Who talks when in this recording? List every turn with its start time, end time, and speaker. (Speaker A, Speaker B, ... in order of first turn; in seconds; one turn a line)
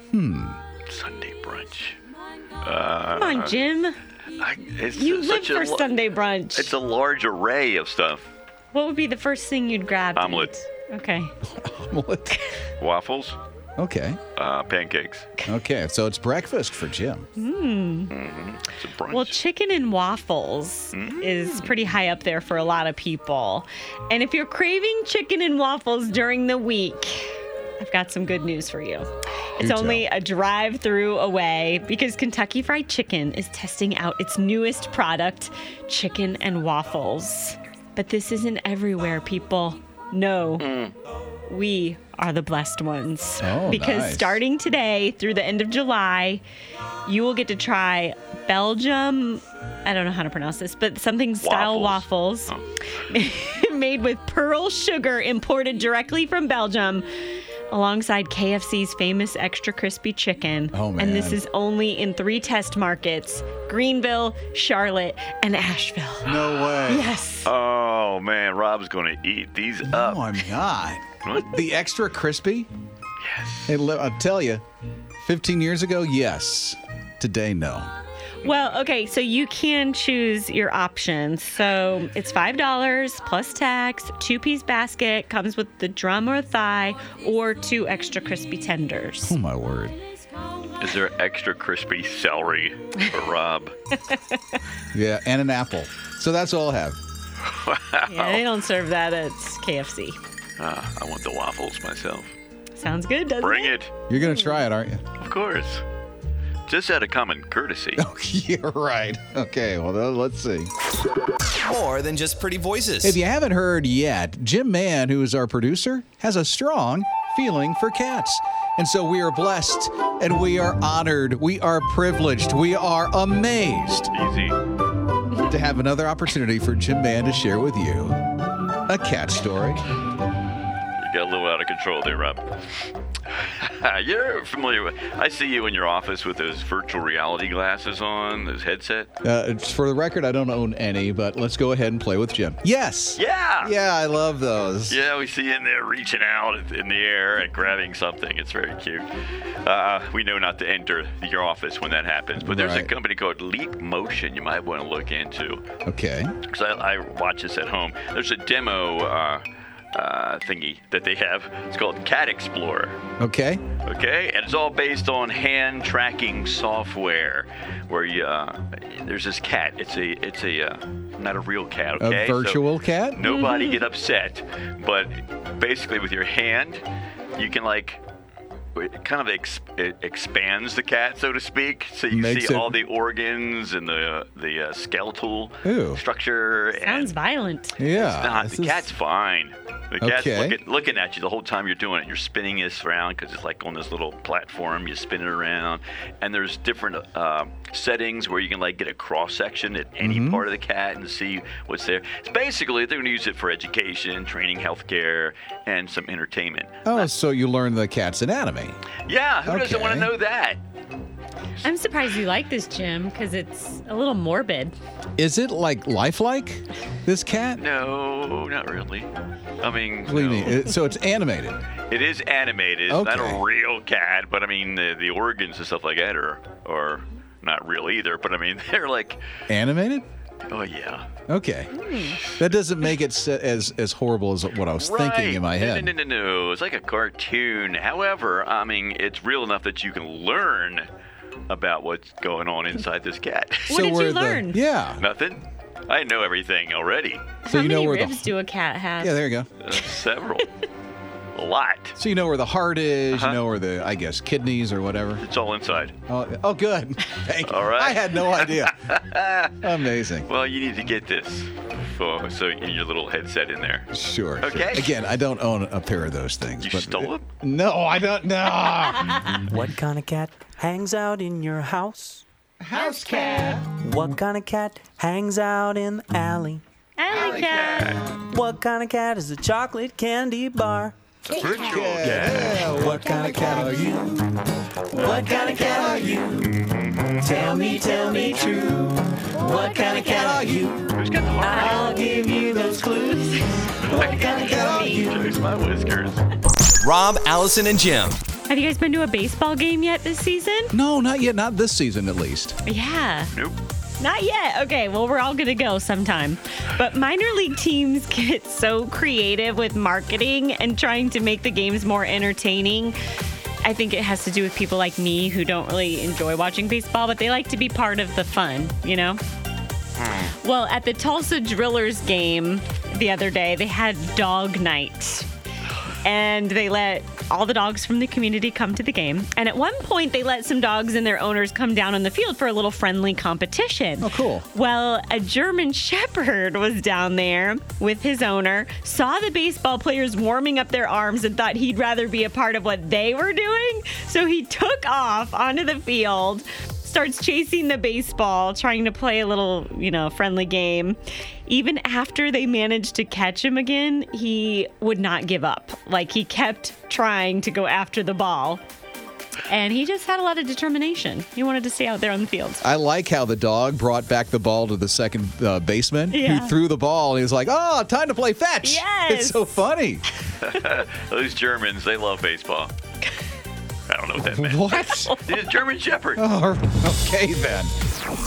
Speaker A: 0.1-0.6
Speaker B: 0.9-2.0
Speaker B: 2.6-3.5
Speaker C: 3.1-4.0
Speaker B: 4.4-6.0
Speaker C: 5.0-6.7
Speaker B: 6.5-8.3
Speaker C: 8.7-11.3
Speaker B: 10.2-10.5
Speaker A: 11.4-12.4
Speaker B: 12.8-13.4
Speaker A: 13.8-14.2
Speaker B: 14.3-15.3
Speaker A: 15.5-17.3
Speaker C: 17.4-18.1
Speaker B: 18.1-19.4
Speaker C: 19.1-40.7
Speaker B: 20.9-21.6
Speaker A: 29.6-30.1
Speaker B: 40.6-40.9
Speaker C: 41.5-46.4
Speaker A: 43.4-44.4
Speaker C: 47.0-52.5
Speaker B: 51.4-52.6
Speaker C: 53.1-57.1
Speaker C: 57.7-67.5
Speaker A: 60.7-61.4
Speaker A: 66.2-67.1
Speaker B: 67.4-70.2
Speaker A: 69.9-72.7
Speaker B: 71.2-71.5
Speaker B: 73.2-73.7
Speaker A: 73.7-74.6
Speaker A: 75.2-77.9
Speaker C: 78.4-89.3
Speaker A: 89.2-90.0
Speaker B: 90.8-93.7
Speaker C: 94.1-94.5
Speaker A: 94.9-97.0
Speaker B: 97.5-98.4
Speaker C: 98.1-100.2
Speaker B: 100.6-102.3
Speaker C: 102.8-103.7
Speaker B: 103.4-103.9
Speaker A: 104.1-105.0
Speaker B: 105.2-105.8
Speaker B: 106.7-108.0
Speaker A: 108.0-110.7
Speaker D: 111.6-113.2
Speaker A: 113.0-124.1
Speaker B: 124.1-124.6
Speaker A: 125.5-128.2
Speaker A: 128.9-129.8
Speaker B: 131.0-132.5
Speaker B: 133.5-139.1
Speaker A: 139.2-145.0
Speaker B: 143.2-143.7
Speaker B: 144.9-149.1
Speaker B: 149.6-155.6
Speaker A: 152.4-152.9
Speaker A: 155.9-156.3
Speaker B: 156.5-159.4
Speaker B: 159.9-163.0
Speaker A: 163.2-163.6
Speaker B: 163.9-172.6
Speaker A: 172.0-173.2
Speaker B: 173.2-176.8
Speaker C: 173.2-173.8
Speaker B: 177.4-178.0
Speaker B: 178.8-187.1
Speaker A: 182.1-182.8
Speaker A: 185.6-186.0
Speaker C: 186.8-187.8
Speaker A: 187.8-188.9
Speaker B: 187.9-206.9
Speaker A: 190.0-190.6
Speaker A: 200.0-200.4
Speaker A: 206.8-208.8
Speaker B: 209.1-210.6
Speaker A: 209.4-210.1
Speaker C: 211.6-214.8
Speaker A: 215.2-217.6
Speaker B: 217.6-219.1
Speaker B: 219.6-220.7
Speaker A: 220.1-221.6
Speaker B: 221.9-229.2
Speaker A: 222.9-223.4
Speaker A: 229.5-230.1
Speaker B: 230.5-231.1
Speaker A: 231.3-231.7
Speaker C: 231.7-232.2
Speaker A: 232.2-235.9
Speaker B: 234.8-240.8
Speaker B: 241.5-243.7
Speaker A: 243.7-245.0
Speaker C: 243.7-244.6
Speaker B: 245.0-247.3
Speaker C: 247.5-249.2
Speaker A: 247.5-248.3
Speaker A: 249.0-249.5
Speaker B: 249.6-250.5
Speaker B: 251.3-252.0
Speaker A: 252.0-255.2
Speaker B: 253.1-253.4
Speaker B: 255.2-255.9
Speaker A: 256.1-258.8
Speaker B: 257.4-259.6
Speaker A: 259.6-260.3
Speaker B: 260.3-263.9
Speaker A: 263.9-269.4
Speaker B: 264.4-264.9
Speaker B: 266.6-267.2
Speaker E: 269.5-272.2
Speaker A: 272.6-273.7
Speaker E: 273.6-276.6
Speaker C: 277.0-278.0
Speaker B: 277.1-278.0
Speaker E: 278.2-280.9
Speaker A: 281.3-284.2
Speaker B: 281.4-282.7
Speaker E: 282.6-284.1
Speaker E: 284.9-286.5
Speaker A: 284.9-286.2
Speaker B: 286.7-287.1
Speaker E: 287.2-290.8
Speaker A: 287.2-288.7
Speaker A: 289.4-290.8
Speaker B: 290.9-291.7
Speaker C: 291.4-295.0
Speaker E: 291.9-292.8
Speaker B: 293.9-296.2
Speaker A: 294.0-295.1
Speaker D: 296.8-298.2
Speaker C: 298.5-300.7
Speaker A: 300.7-302.6
Speaker C: 302.6-303.3
Speaker B: 303.3-303.6
Speaker C: 304.0-313.0
Speaker C: 313.6-319.2
Speaker B: 320.0-320.3
Speaker C: 320.4-325.3
Speaker C: 326.0-358.6
Speaker A: 334.0-334.4
Speaker C: 359.5-362.6
Speaker A: 362.6-370.0
Speaker C: 366.1-366.6
Speaker C: 368.6-369.6
Speaker B: 370.4-372.7
Speaker B: 373.9-374.7
Speaker A: 374.2-375.1
Speaker C: 374.7-375.2
Speaker B: 375.2-376.2
Speaker A: 376.1-377.7